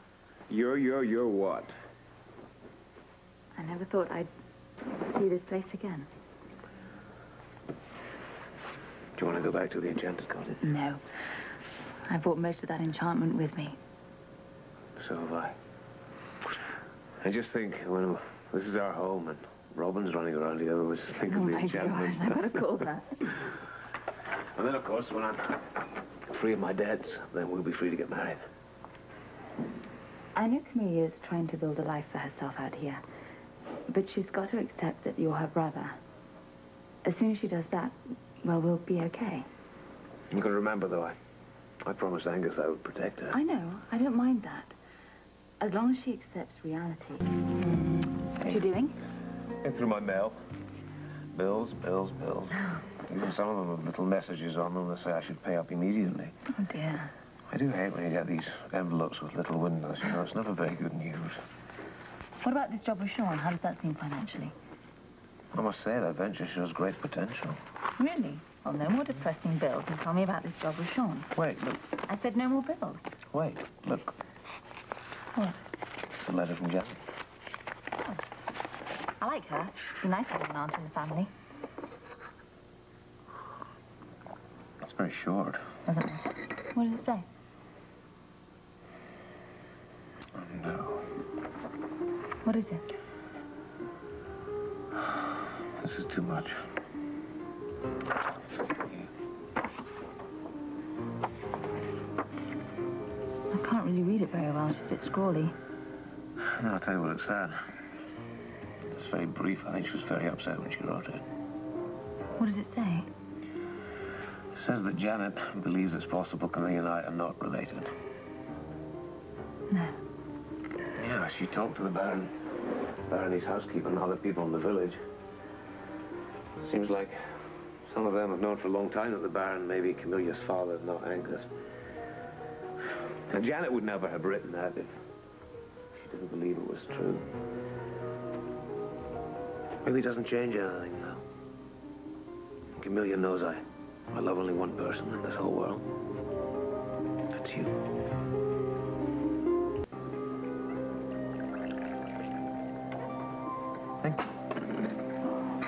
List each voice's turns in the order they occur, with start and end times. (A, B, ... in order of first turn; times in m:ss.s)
0:00.5-0:01.7 A
0:03.5-0:04.3 B
0:05.0-0:06.1 B
0:09.1-0:10.6 A
0:10.6-0:11.0 B
0:12.0-0:13.8 B
0:15.0-0:15.6 A
0:17.2-0:22.7 A
0:21.1-0:23.4 B
0:24.5-0:28.4 A
0:30.3-0:33.0 B
0:33.9-0:36.0 B
0:37.0-0:39.5 B
0:40.3-0:41.2 A
0:41.8-0:43.4 A
0:43.3-0:44.8 B
0:45.6-0:49.0 B
0:49.6-0:50.4 A
0:51.3-0:56.3 A
0:56.5-0:57.1 B
0:57.5-1:01.4 A
1:02.4-1:04.5 B
1:05.5-1:07.6 A
1:08.0-1:11.3 B
1:11.3-1:11.9 A
1:12.0-1:13.2 B
1:13.3-1:14.1 A
1:16.2-1:17.0 A
1:19.2-1:21.3 B
1:24.8-1:25.6 A
1:25.8-1:27.2 B
1:30.4-1:31.1 A
1:32.4-1:32.8 B
1:35.8-1:36.6 A
1:38.6-1:39.1 A
1:43.5-1:45.6 B
1:46.4-1:47.6 A
1:48.9-1:51.2 A
1:52.4-1:53.1 B
1:54.5-1:57.9 A
2:01.0-2:02.3 A
2:03.1-2:05.0 A
2:06.6-2:11.5 A
2:13.3-2:15.0 A
2:15.9-2:17.3 A
2:19.8-2:21.2 A
2:22.8-2:25.8 A
2:27.3-2:27.7 A
2:34.0-2:34.3 A